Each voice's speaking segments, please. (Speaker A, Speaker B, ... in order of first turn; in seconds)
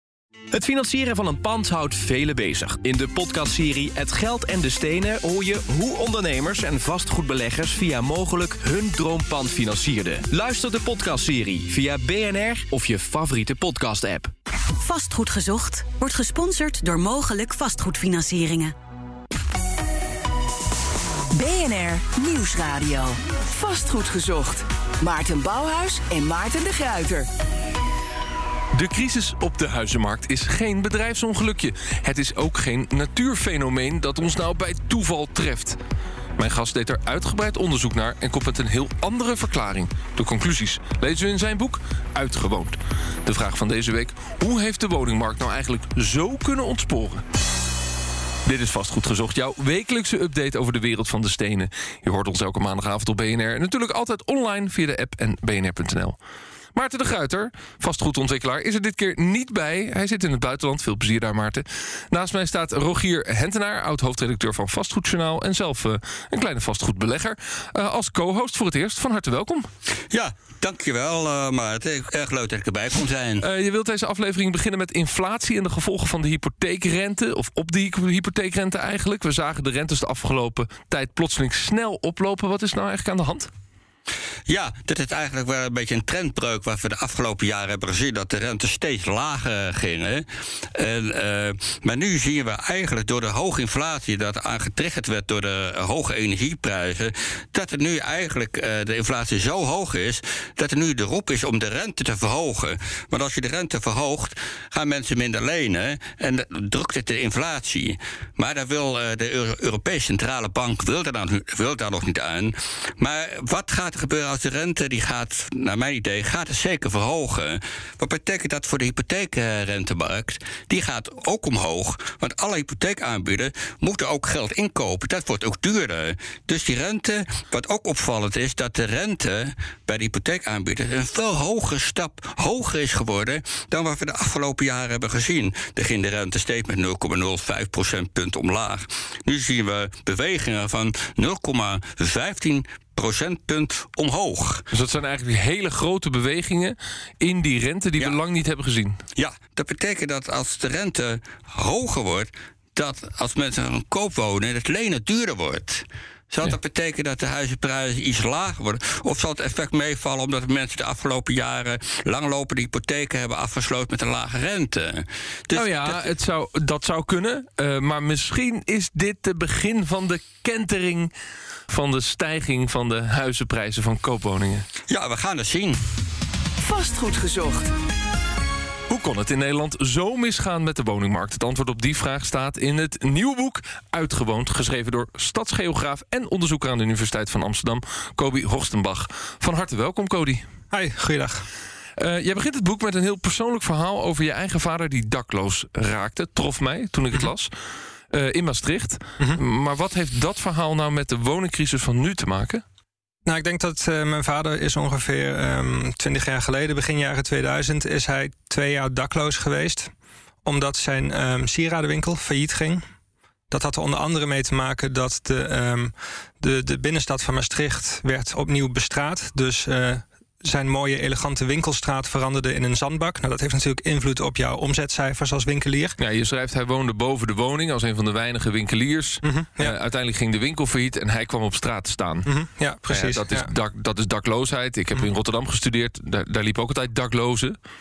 Speaker A: 0.5-14.3
Speaker B: 14.8-18.8
Speaker C: 21.3-27.3, 176.6-177.7
Speaker D: 28.7-35.8, 36.4-47.2, 48.5-56.2, 56.8-69.7, 73.4-83.5, 144.7-149.0, 165.5-171.1, 171.7-174.7, 178.9-190.4, 192.0-197.5, 198.1-202.6, 226.0-232.3, 232.9-237.6
Speaker E: 70.1-73.5, 84.5-144.7, 149.2-166.0, 174.9-175.8
Speaker F: 190.7-191.5, 203.3-209.9, 210.4-212.8, 213.5-226.0, 229.2-229.8, 232.3-233.5